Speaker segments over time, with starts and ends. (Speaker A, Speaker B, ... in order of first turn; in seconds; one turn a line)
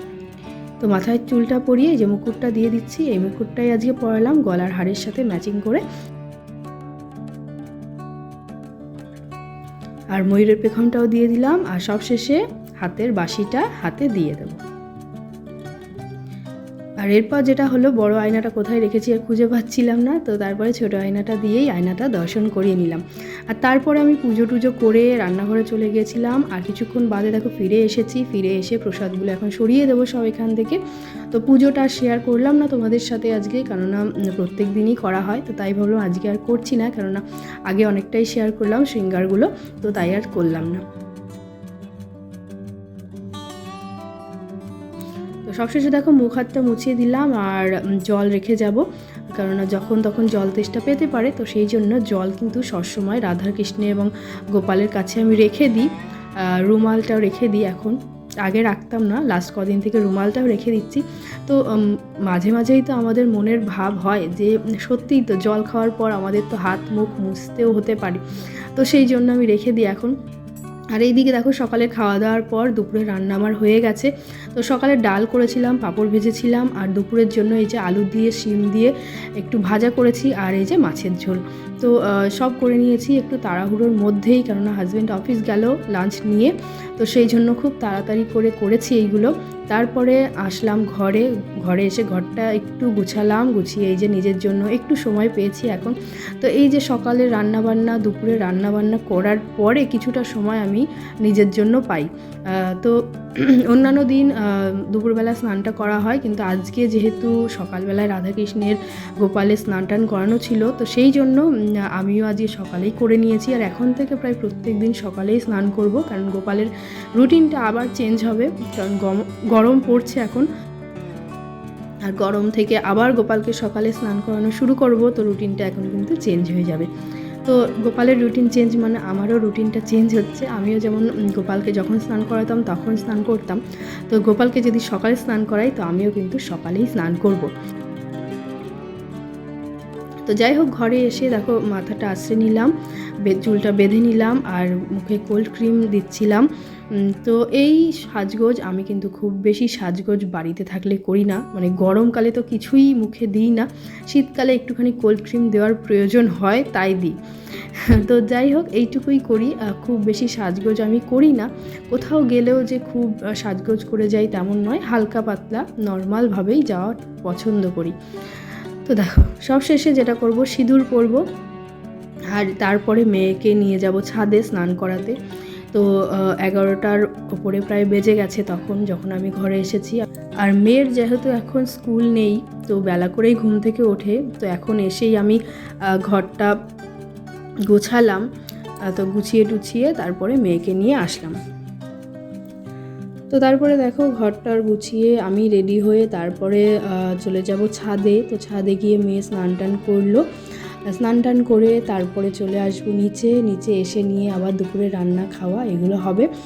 Speaker A: 0.8-5.8
Speaker A: 10.2-14.6
Speaker A: 17.0-30.8
Speaker A: 31.3-40.8
Speaker A: 45.5-68.2
Speaker A: 68.8-70.1
Speaker A: 71.0-120.5
Speaker A: 122.1-126.9
Speaker A: 127.5-137.5
Speaker A: 140.3-142.7
Speaker A: 143.2-168.0
Speaker A: 168.9-171.2
Speaker A: 172.3-175.2
Speaker A: 175.7-185.4
Speaker A: 185.9-186.5
Speaker A: 187.7-188.2
Speaker A: 188.9-191.4
Speaker A: 193.3-200.2
Speaker A: 200.9-206.3